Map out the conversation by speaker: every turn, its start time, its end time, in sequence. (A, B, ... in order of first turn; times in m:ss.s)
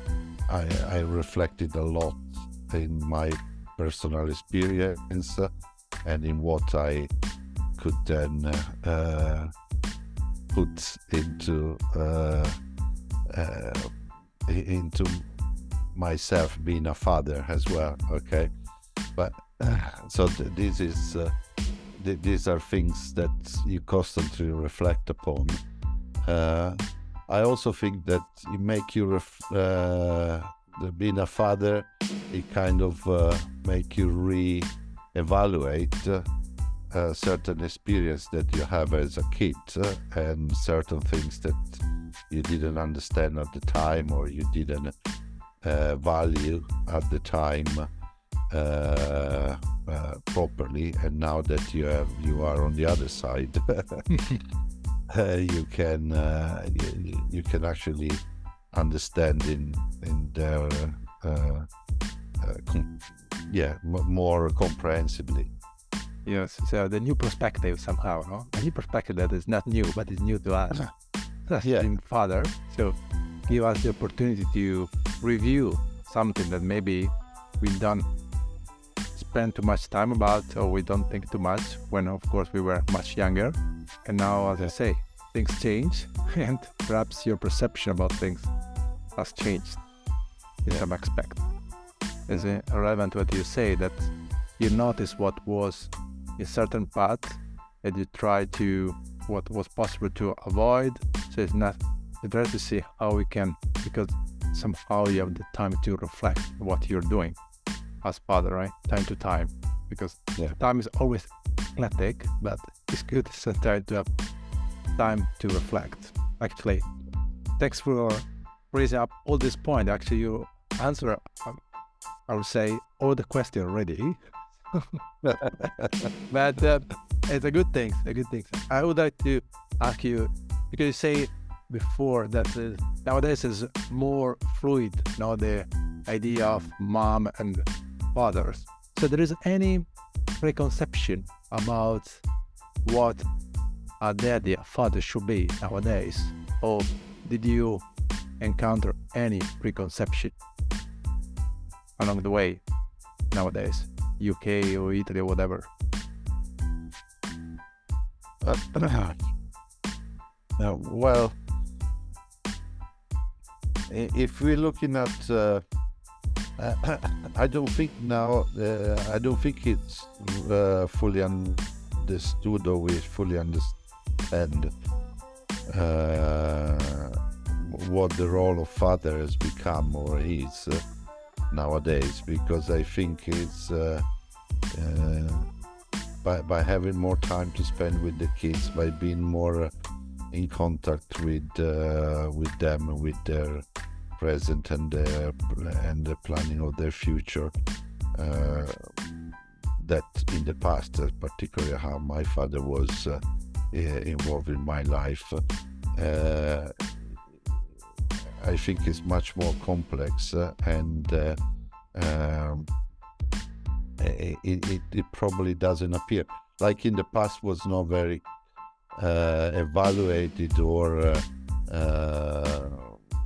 0:00.5-0:05.5 A
0:06.0-0:07.1 A
0:07.8-0:09.5 A
0:10.5-0:12.5 A
0:13.3-0:13.9 A
0:14.4-0:18.5 A
0:19.2-0:21.3 A
0:22.0-0:25.6 A
0:26.2-0:36.2 A
0:36.9-0:44.9 A
0:45.6-0:47.9 A
0:48.5-0:54.1 A
0:54.1-0:54.4 B
0:55.1-1:01.7 A
1:02.4-1:05.5 A
1:06.2-1:10.8 B
1:11.5-1:13.0 B
1:11.6-1:11.9 A
1:13.5-1:18.0 B
1:19.2-1:28.5 B
1:29.2-1:29.8 B
1:30.6-1:31.4 B
1:32.3-1:47.4 B
1:48.0-1:54.1 B
1:55.0-1:56.9 B
1:57.6-2:01.6 B
2:02.3-2:05.0 B
2:05.2-2:06.1 A
2:06.3-2:19.9 B
2:20.4-2:22.2 B
2:22.8-2:23.3 B
2:24.0-2:27.8 B
2:28.4-2:30.4 B
2:32.0-2:32.6 B
2:33.3-2:35.7 B
2:38.4-2:39.2 A
2:40.6-2:41.4 A
2:43.9-2:45.6 A
2:46.6-2:54.7 A
2:55.7-3:00.8 A
3:01.5-3:04.0 A
3:04.7-3:05.5 A
3:06.2-3:09.7 A
3:10.3-3:13.6 A
3:14.2-3:17.5 A
3:18.1-3:18.9 A
3:19.8-3:25.4 A
3:26.0-3:27.1 A
3:28.4-3:31.4 A
3:31.9-3:32.7 A
3:34.0-3:38.2 A
3:39.0-3:43.0 A